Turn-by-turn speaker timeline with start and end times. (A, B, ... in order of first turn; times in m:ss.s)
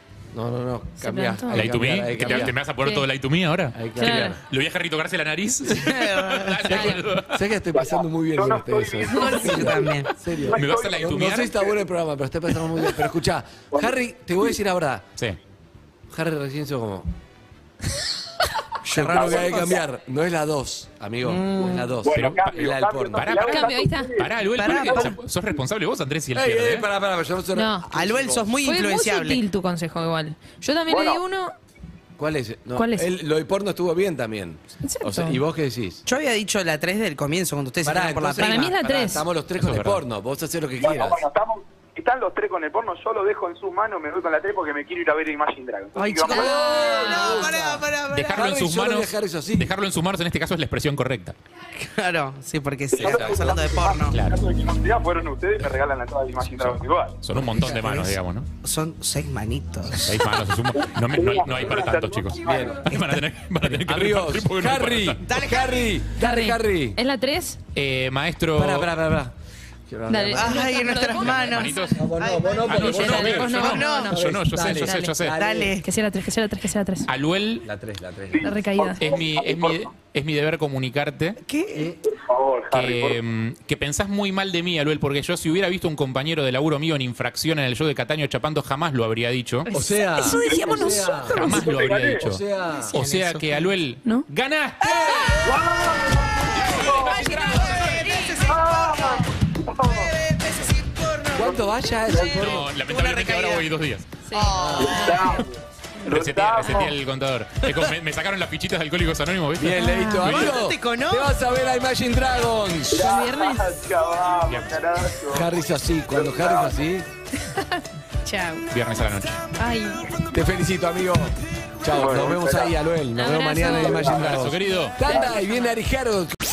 0:00.3-0:02.6 A
0:01.0-0:03.0 B
0:01.5-0:07.4 C
0:03.7-0:04.4 A
0:04.0-0:04.4 B
0:05.7-0:06.9 D
0:06.7-0:15.0 A
0:06.7-0:07.0 B
0:07.7-0:09.8 E
0:09.1-0:10.1 D
0:10.1-0:11.6 C
0:10.4-0:11.1 E
0:16.1-0:17.1 A
0:18.8-0:23.4 A
0:18.9-0:19.8 D
0:19.1-0:19.8 E
0:21.2-0:21.8 D
0:21.7-0:24.3 E
0:22.1-0:22.6 C
0:23.1-0:26.9 C
0:23.4-0:24.2 B
0:24.5-0:25.2 D
0:26.3-0:28.5 A
0:27.5-0:27.8 B
0:27.9-0:29.4 D
0:28.6-0:31.5 B
0:30.9-0:31.2 E
0:32.2-0:36.0 A
0:32.8-0:33.1 B
0:34.8-0:35.4 B
0:36.0-0:38.7 D
0:37.8-0:41.2 A
0:38.4-0:39.2 B
0:39.6-0:40.0 C
0:40.8-0:46.6 E
0:46.0-0:48.4 D
0:46.3-0:49.7 A
0:48.1-0:51.3 C
0:51.8-0:54.2 D
0:52.9-0:53.5 A
0:52.9-0:57.2 E
0:54.1-0:54.4 C
0:56.6-0:58.5 C
0:57.3-0:58.2 A
0:58.6-1:00.2 D
1:00.0-1:05.2 C
1:00.9-1:02.9 E
1:02.4-1:02.9 A
1:03.6-1:07.0 A
1:05.2-1:05.9 D
1:06.2-1:07.6 B
1:07.7-1:08.9 C
1:08.5-1:09.3 A
1:09.9-1:10.7 A
1:10.1-1:11.9 B
1:10.3-1:12.6 D
1:11.1-1:12.1 C
1:11.9-1:15.8 A
1:12.6-1:15.4 C
1:12.7-1:14.2 B
1:13.5-1:14.2 D
1:14.8-1:17.1 B
1:15.4-1:15.8 D
1:17.1-1:17.7 C
1:17.6-1:18.5 A
1:18.3-1:19.9 E
1:18.4-1:19.2 B
1:19.0-1:21.4 C
1:21.4-1:21.9 D
1:21.7-1:22.0 A
1:22.0-1:23.2 E
1:22.7-1:29.7 C
1:29.6-1:31.7 B
1:29.7-1:31.4 A
1:30.4-1:30.9 E
1:30.7-1:31.3 D
1:31.3-1:32.4 C
1:31.4-1:32.2 E
1:32.2-1:32.9 A
1:32.9-1:33.6 D
1:32.9-1:35.4 C
1:34.8-1:43.7 D
1:35.4-1:37.3 E
1:36.5-1:38.3 C
1:38.4-1:40.1 E
1:41.3-1:42.7 A
1:41.4-1:42.3 E
1:42.3-1:44.1 C
1:44.2-1:45.4 B
1:44.3-1:45.4 D
1:44.6-1:45.1 A
1:44.8-1:47.0 E
1:46.0-1:50.5 C
1:49.6-1:53.0 A
1:49.8-1:50.4 B
1:50.2-1:51.3 D
1:52.9-1:55.5 E
1:52.9-1:53.6 B
1:54.5-1:54.8 C
1:55.3-1:57.0 A
1:56.1-1:56.8 E
1:57.4-1:58.6 B
1:58.7-1:59.4 C
1:59.6-2:00.0 B
2:00.3-2:06.4 A
2:01.9-2:02.7 E
2:03.1-2:04.2 B
2:03.7-2:04.2 E
2:04.0-2:05.0 C
2:04.9-2:05.8 B